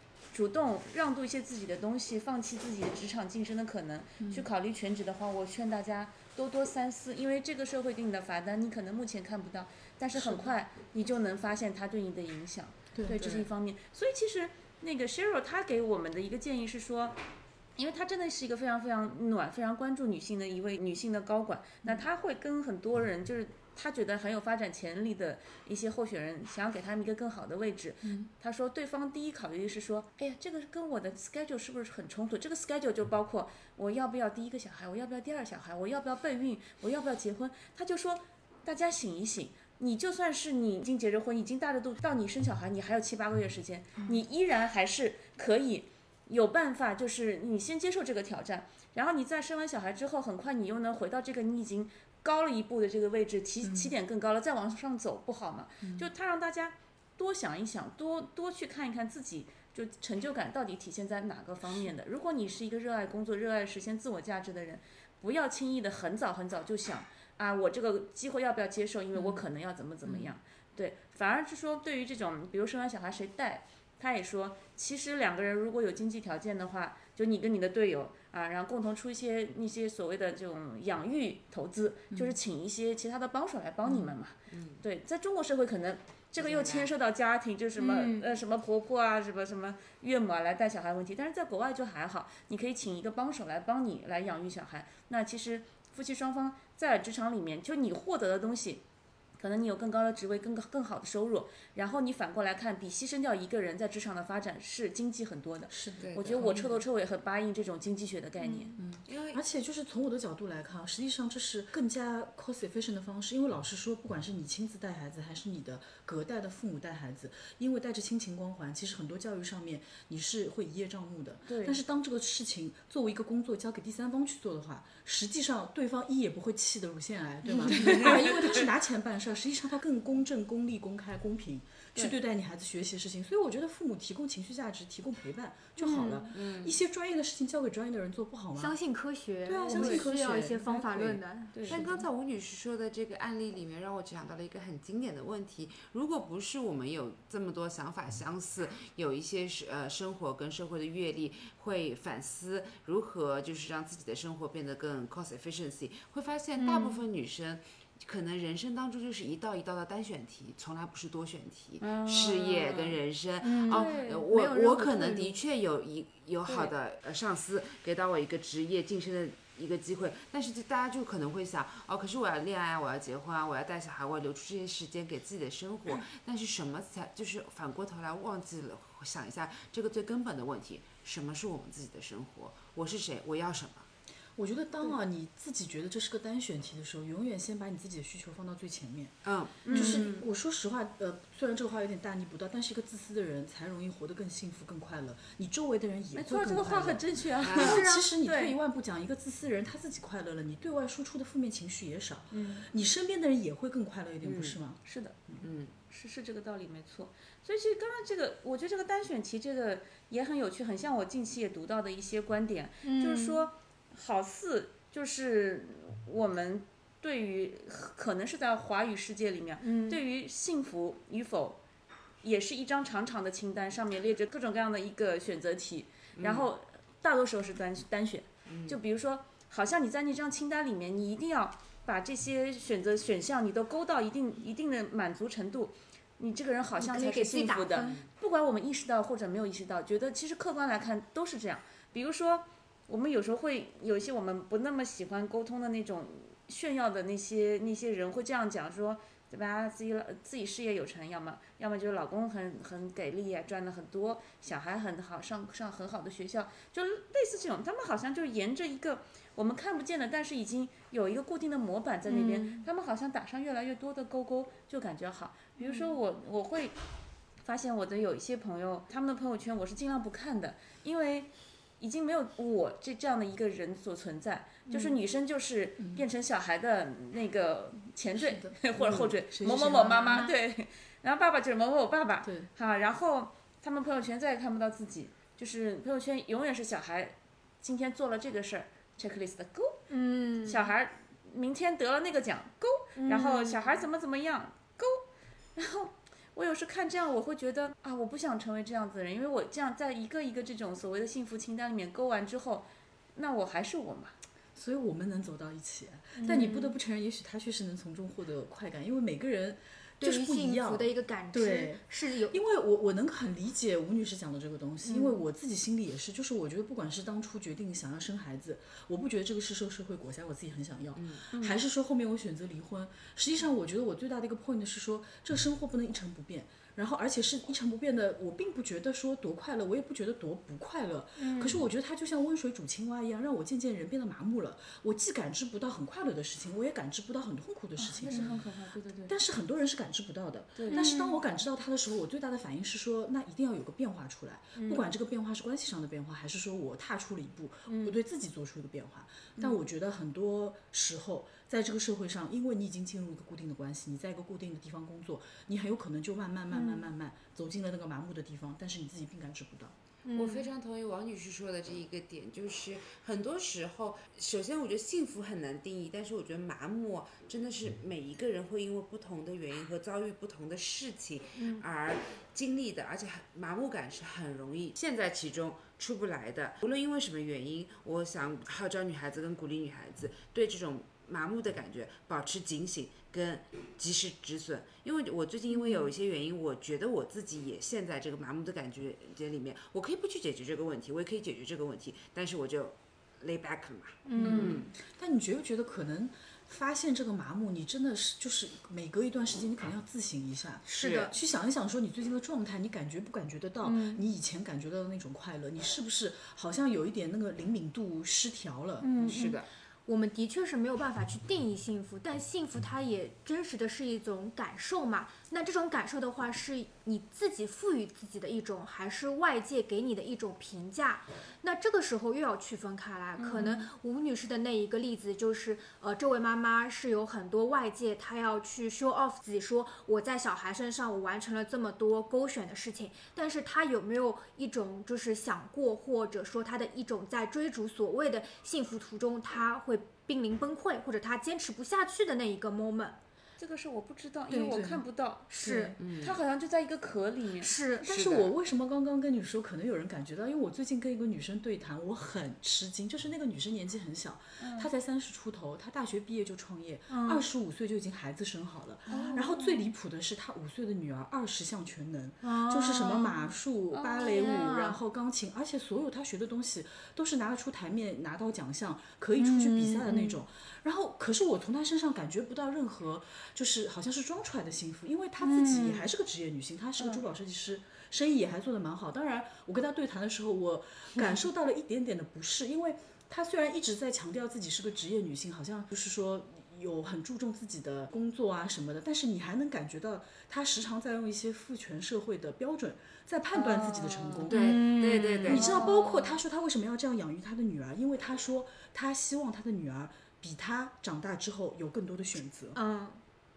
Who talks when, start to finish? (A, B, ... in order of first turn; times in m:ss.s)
0:00.3-0:17.2 A
0:04.2-0:04.5 B
0:10.1-0:10.5 B
0:12.9-0:13.4 B
0:17.8-1:38.8 A
0:28.0-0:28.3 B
0:44.0-0:44.2 B
0:53.6-0:53.9 B
0:55.8-0:56.1 B
1:09.1-1:09.4 B
1:10.0-1:10.3 B
1:22.1-1:22.4 B
1:23.8-1:24.1 B
1:24.5-1:24.8 C
1:26.4-1:26.9 C
1:27.8-1:28.3 D
1:39.4-1:48.8 A
1:45.7-1:46.8 B
1:46.0-1:46.6 C
1:48.4-1:48.8 D
1:48.8-2:18.7 B
1:49.0-1:49.4 C
2:01.5-2:01.8 A
2:07.6-2:08.6 A
2:15.8-2:16.2 D
2:15.9-2:16.2 A
2:16.3-2:16.8 C
2:18.6-2:21.8 D
2:19.4-2:20.6 B
2:19.7-2:21.8 A
2:21.7-3:03.9 C
2:36.6-2:37.0 D
2:41.8-2:43.0 A
2:43.4-2:45.4 D
2:43.7-2:44.3 A
2:46.4-2:46.7 A
3:04.4-3:09.2 B
3:09.2-3:09.7 C
3:09.6-3:10.1 A
3:09.7-3:25.4 B
3:09.7-3:10.1 D
3:16.1-3:18.5 A
3:17.4-3:17.8 C
3:17.6-3:18.1 D
3:22.3-3:22.7 D
3:24.2-3:24.6 C
3:24.8-3:25.2 A
3:25.4-3:25.7 C
3:25.9-3:41.6 A
3:32.8-3:33.5 D
3:39.6-3:40.0 D
3:42.2-4:26.7 A
3:46.2-3:46.5 C
3:48.5-3:48.8 C
3:56.8-3:58.0 D
3:57.8-3:58.0 C
4:22.1-4:22.6 D
4:25.6-4:26.0 D
4:27.4-4:31.3 A
4:31.8-4:49.8 A
4:34.7-4:35.0 D
4:35.8-4:36.0 B
4:38.2-4:40.3 B
4:42.2-4:42.5 B
4:49.9-4:50.7 D
4:50.4-4:55.0 A
4:52.9-4:53.8 D
4:55.6-5:04.1 A
5:04.5-5:38.4 B
5:06.2-5:06.7 D
5:10.0-5:12.4 D
5:14.8-5:15.2 D
5:21.0-5:21.2 C
5:21.3-5:21.6 A
5:31.2-5:31.6 D
5:37.8-5:39.1 A
5:38.1-5:38.4 D
5:39.1-5:59.7 B
5:40.6-5:40.9 A
5:40.7-5:41.2 D
5:44.5-5:44.9 D
5:47.7-5:48.0 D
5:56.5-5:56.9 D
6:00.0-6:00.5 D
6:00.1-6:34.7 C
6:11.4-6:11.6 D
6:25.5-6:25.9 D
6:34.0-6:34.6 D
6:34.2-6:34.6 A
6:34.2-6:48.9 B
6:40.7-6:41.1 D
6:40.8-6:41.1 C
6:43.6-6:44.0 D
6:48.8-7:23.0 D
6:49.0-6:49.5 C
7:03.2-7:03.7 A
7:23.4-7:27.5 A
7:24.3-7:24.6 D
7:24.5-7:24.8 B
7:25.3-7:25.8 D
7:25.8-7:26.2 C
7:27.4-7:27.8 D
7:27.8-8:14.6 B
7:27.9-7:28.3 C
7:34.4-7:34.7 A
7:36.9-7:37.2 D
7:38.9-7:39.6 A
7:38.9-7:39.4 D
7:42.2-7:43.2 D
7:43.7-7:44.8 A
7:44.0-7:44.7 D
7:49.2-7:50.2 D
7:55.2-7:55.9 D
8:13.3-8:14.3 A
8:14.3-8:15.5 C
8:14.3-8:15.8 D
8:15.2-8:22.6 B
8:15.3-8:16.2 A
8:22.5-8:23.0 D